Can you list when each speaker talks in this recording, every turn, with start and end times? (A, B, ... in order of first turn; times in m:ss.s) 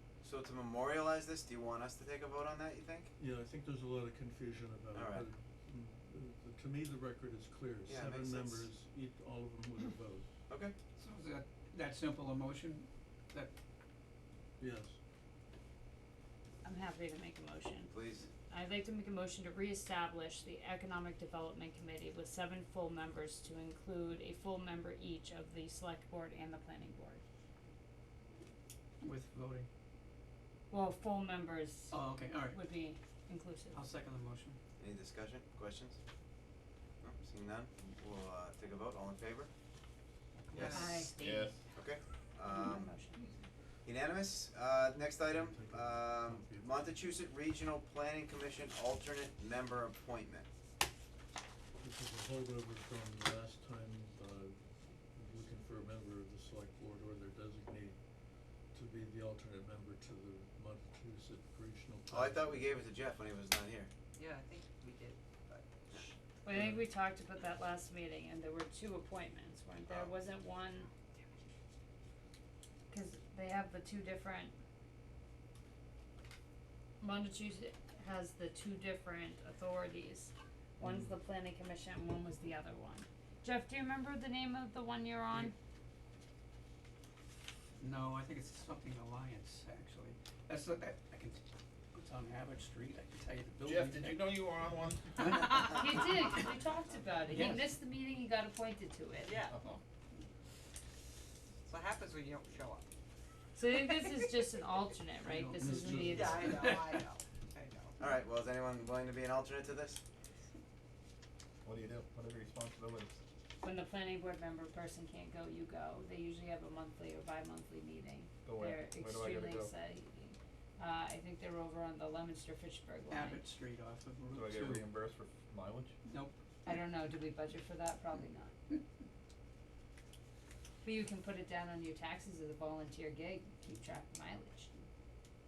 0:00.2-0:03.1 A
0:03.2-0:10.3 B
0:04.9-0:05.3 A
0:07.9-0:08.7 A
0:10.5-0:10.7 A
0:11.0-0:13.5 C
0:14.6-0:15.0 B
0:16.6-0:27.2 D
0:17.9-0:18.3 A
0:29.0-0:29.7 C
0:30.7-0:33.8 D
0:31.9-0:32.6 C
0:33.7-0:34.6 C
0:34.8-0:36.0 A
0:37.0-0:39.5 A
0:40.5-0:41.0 E
0:40.5-0:41.1 A
0:40.7-0:41.5 D
0:41.2-0:41.6 F
0:41.7-0:43.0 A
0:42.4-0:43.3 D
0:43.8-0:50.5 A
0:45.3-0:46.7 B
0:51.8-0:58.0 B
0:58.7-1:02.7 B
1:02.1-1:03.9 A
1:04.2-1:06.1 E
1:06.4-1:10.9 D
1:09.9-1:10.1 A
1:12.9-1:14.5 D
1:17.0-1:25.5 D
1:27.8-1:34.3 C
1:33.6-1:35.6 F
1:35.2-1:36.1 C
1:35.7-1:39.4 D
1:37.3-1:37.7 C
1:39.2-1:39.6 E
1:39.5-1:39.8 F
1:41.6-1:42.8 E
1:43.6-1:46.7 D
1:45.2-1:47.0 C
1:45.8-1:47.9 E
1:48.0-1:50.0 A
1:51.6-1:53.1 F
1:53.6-2:03.4 D
1:58.4-1:59.7 F
2:03.1-2:04.9 C
2:04.3-2:06.0 F
2:06.0-2:06.4 C
2:06.6-2:08.5 D
2:10.8-2:14.8 D